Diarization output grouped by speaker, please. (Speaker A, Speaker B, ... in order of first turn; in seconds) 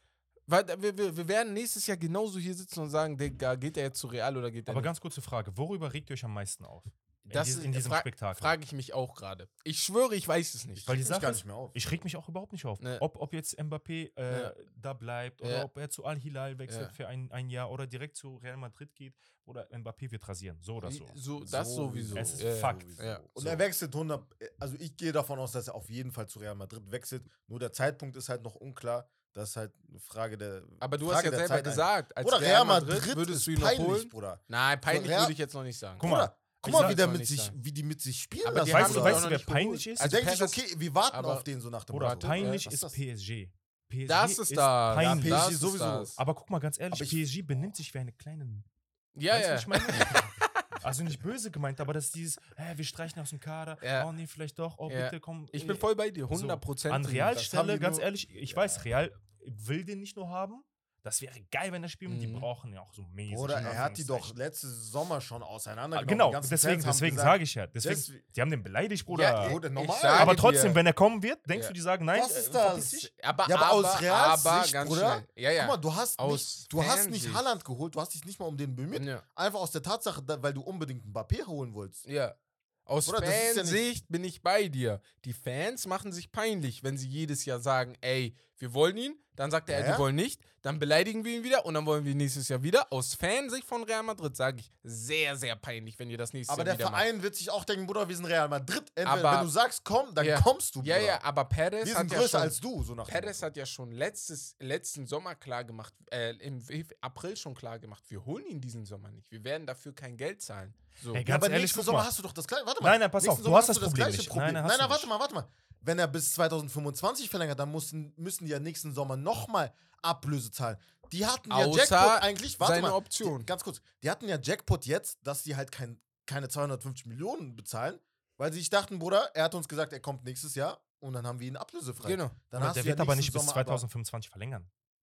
Speaker A: 0.5-4.9, 7.3-10.9, 15.4-15.7, 16.7-16.9, 20.8-23.2, 30.8-37.5, 38.4-41.4, 42.2-42.6, 44.0-46.2, 49.1-50.7, 53.8-54.1, 54.9-57.7, 62.1-62.5, 69.1-70.8, 71.5-71.7, 73.0-77.4, 78.9-79.2, 82.0-97.1, 99.0-99.5, 100.2-111.2, 121.5-123.5, 132.0-132.4
Speaker B: 4.7-8.6, 10.8-21.2, 22.1-23.6, 36.0-37.0, 38.5-40.2, 41.9-45.5, 46.2-48.6, 49.3-64.3, 65.9-69.6, 70.1-73.1, 111.1-112.1, 112.8-115.1, 132.5-134.7
Speaker C: 10.8-12.0, 21.4-35.4, 36.0-39.3, 40.0-43.0, 45.0-46.1, 46.9-47.3, 57.3-58.9, 63.3-68.2, 69.4-70.5, 72.1-82.0, 83.0-83.8, 89.7-90.0, 96.5-101.2, 101.8-103.4, 111.2-133.8